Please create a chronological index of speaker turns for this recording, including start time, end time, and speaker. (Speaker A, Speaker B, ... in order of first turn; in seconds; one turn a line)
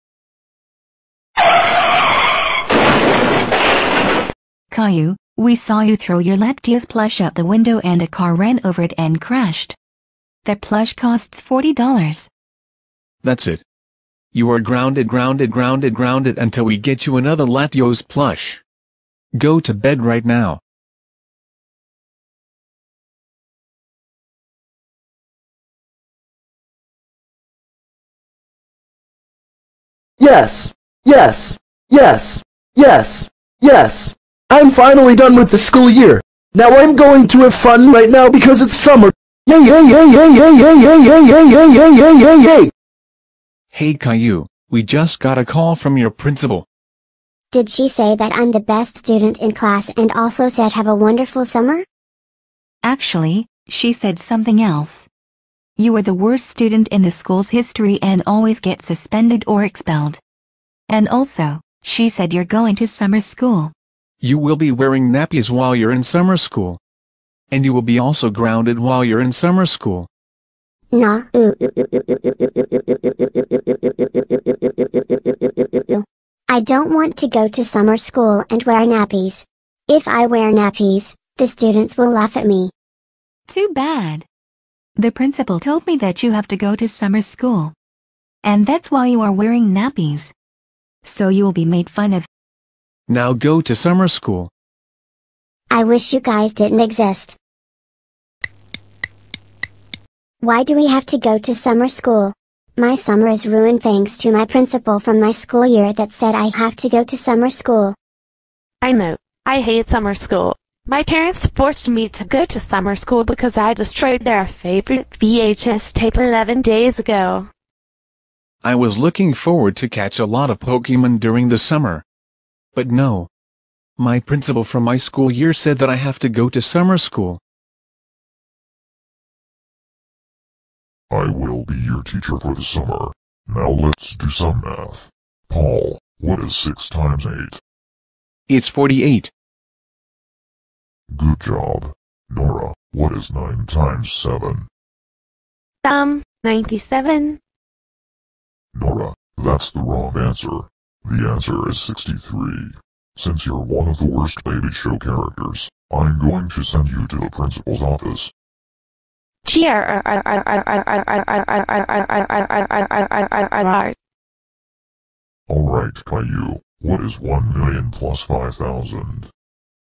Speaker A: 4.7-9.8
Speaker A: 10.4-12.3
Speaker B: 13.2-13.6
Speaker B: 14.3-18.6
Speaker B: 19.4-20.6
Speaker C: 30.2-42.7
Speaker B: 43.7-46.6
Speaker D: 47.5-51.9
Speaker A: 52.8-55.1
Speaker A: 55.8-60.2
Speaker A: 60.9-63.7
Speaker B: 64.2-66.8
Speaker B: 67.5-70.1
Speaker D: 70.9-82.7
Speaker A: 83.5-84.3
Speaker A: 85.0-87.7
Speaker A: 88.4-90.3
Speaker A: 91.0-92.3
Speaker B: 93.1-94.5
Speaker D: 95.7-97.4
Speaker D: 100.4-108.0
Speaker E: 108.8-117.5
Speaker B: 118.6-122.0
Speaker B: 122.8-123.3
Speaker B: 124.0-127.4
Speaker F: 131.1-137.6
Speaker B: 138.5-139.3
Speaker F: 141.1-144.7
Speaker E: 145.8-147.4
Speaker F: 148.8-158.3
Speaker E: 159.4-163.9
Speaker F: 165.5-169.3